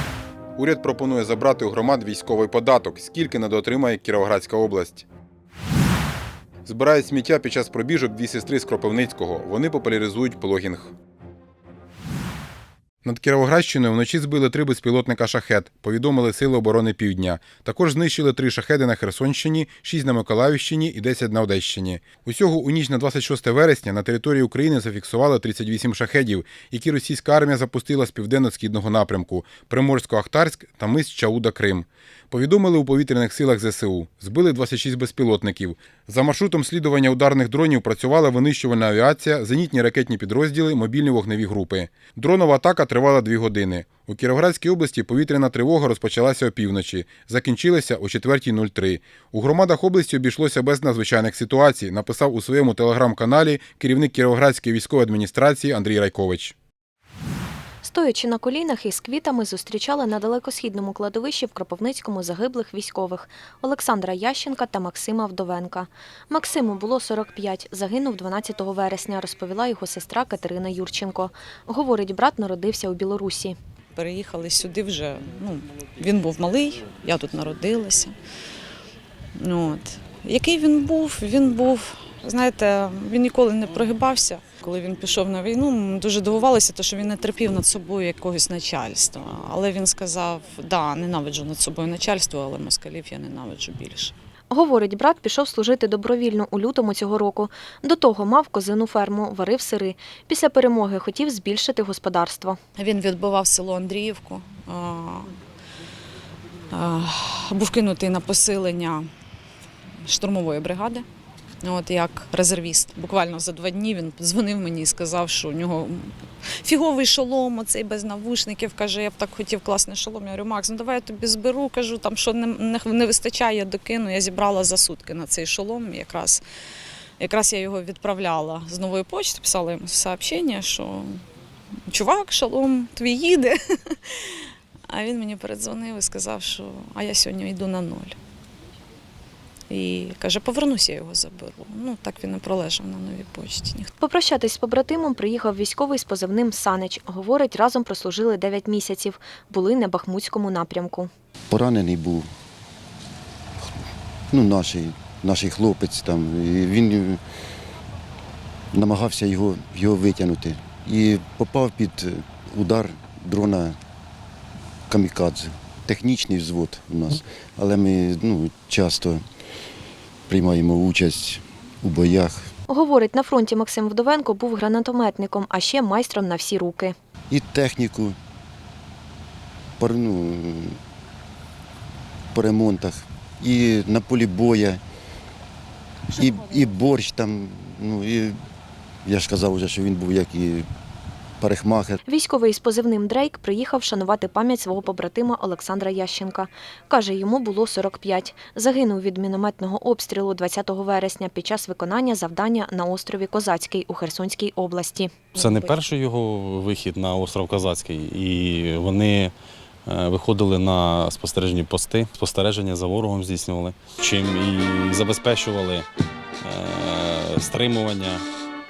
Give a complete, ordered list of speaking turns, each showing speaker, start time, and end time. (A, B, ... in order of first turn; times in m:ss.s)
0:00.6-0:05.0 A
0:06.6-0:10.9 A
0:13.0-0:56.5 A
0:57.8-1:13.6 B
1:13.9-1:18.1 C
1:19.4-1:34.1 C
1:34.5-1:42.6 B
1:42.8-1:45.3 C
1:46.7-1:49.1 C
1:50.0-1:51.0 C
1:51.6-2:06.4 C
2:07.2-2:11.2 C
2:11.9-2:14.4 C
2:14.9-2:18.1 C
2:19.7-2:23.9 C
2:24.0-2:31.1 B
2:31.5-2:32.3 D
2:34.3-2:37.2 D
2:38.7-2:43.8 D
2:44.9-2:49.2 D
2:50.3-2:52.5 D
2:52.7-2:56.9 B
2:57.3-2:58.2 D
2:59.8-3:00.8 D
3:02.3-3:04.8 D
3:06.1-3:08.4 D
3:09.0-3:10.7 D
3:11.4-3:12.0 D
3:12.0-3:25.7 B
3:25.3-3:29.3 E
3:29.8-3:35.8 E
3:36.4-3:38.2 E